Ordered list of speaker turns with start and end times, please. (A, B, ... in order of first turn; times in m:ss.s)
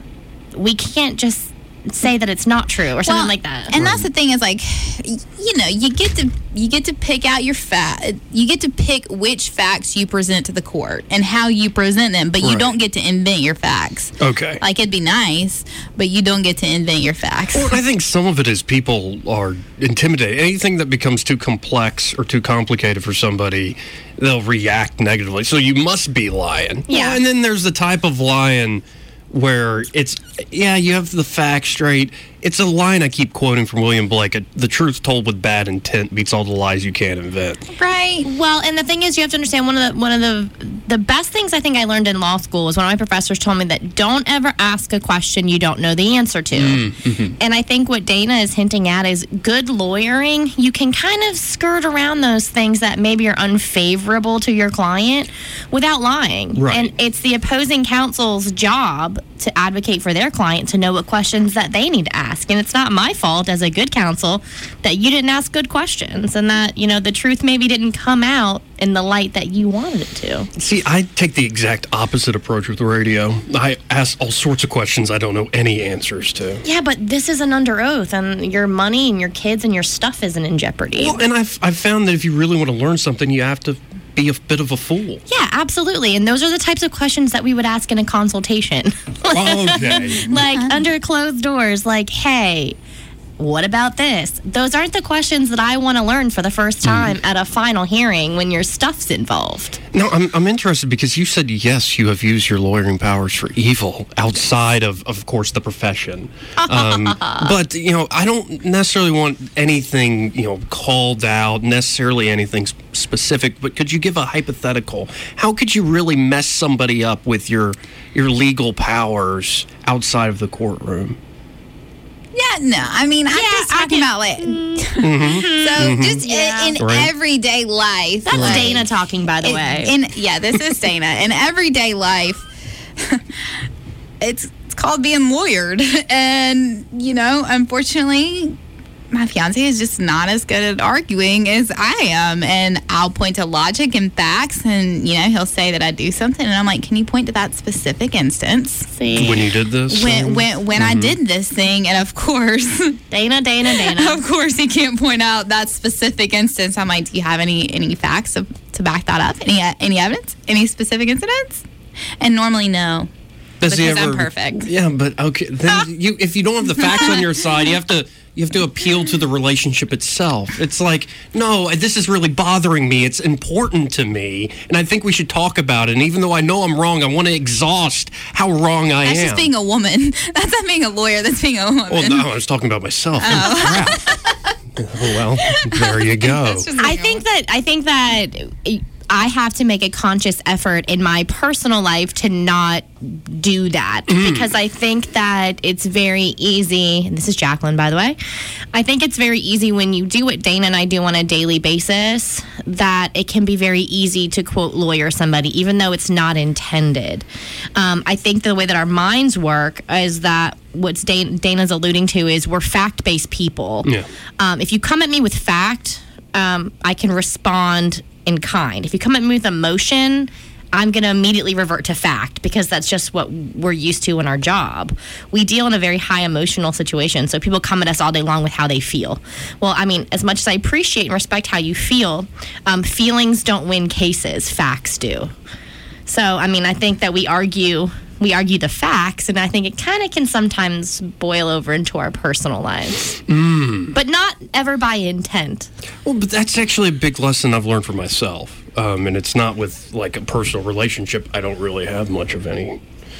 0:00.5-0:03.7 A
0:03.1-0:17.8 B
0:03.7-0:04.1 C
0:12.4-0:12.7 C
0:14.2-0:14.6 C
0:17.5-0:37.6 C
0:26.9-0:27.2 A
0:37.7-0:38.2 B
0:38.2-1:10.5 A
0:46.6-0:47.4 C
0:56.6-0:56.9 C
1:10.6-1:16.6 C
1:16.6-1:21.2 A
1:21.0-1:25.2 C
1:25.3-1:32.8 A
1:29.3-1:30.4 C
1:30.4-1:30.7 B
1:33.4-1:39.8 A
1:36.8-1:37.2 C
1:39.9-2:01.2 C
1:46.6-1:47.5 A
2:02.3-2:08.9 B
2:03.3-2:06.8 A
2:05.0-2:06.3 C
2:06.8-2:07.1 C
2:08.2-2:09.9 A
2:08.3-2:08.8 C
2:09.4-2:13.6 B
2:14.2-2:18.6 B
2:19.1-2:28.9 B
2:28.9-2:29.4 A
2:29.2-2:31.2 C
2:29.9-2:33.0 B
2:33.1-2:34.2 A
2:33.7-2:41.6 B
2:42.2-2:43.1 B
2:43.6-2:59.5 C
2:43.6-2:44.7 B
2:59.0-3:02.3 B
3:01.9-3:04.1 C
3:03.2-3:04.4 B
3:04.8-3:06.7 C
3:05.5-3:07.2 B
3:06.8-3:18.2 A
3:14.1-3:14.5 C
3:18.7-3:55.3 A
3:56.1-4:03.2 A
4:03.3-4:03.9 C
4:03.9-4:05.7 A
4:06.0-4:12.8 C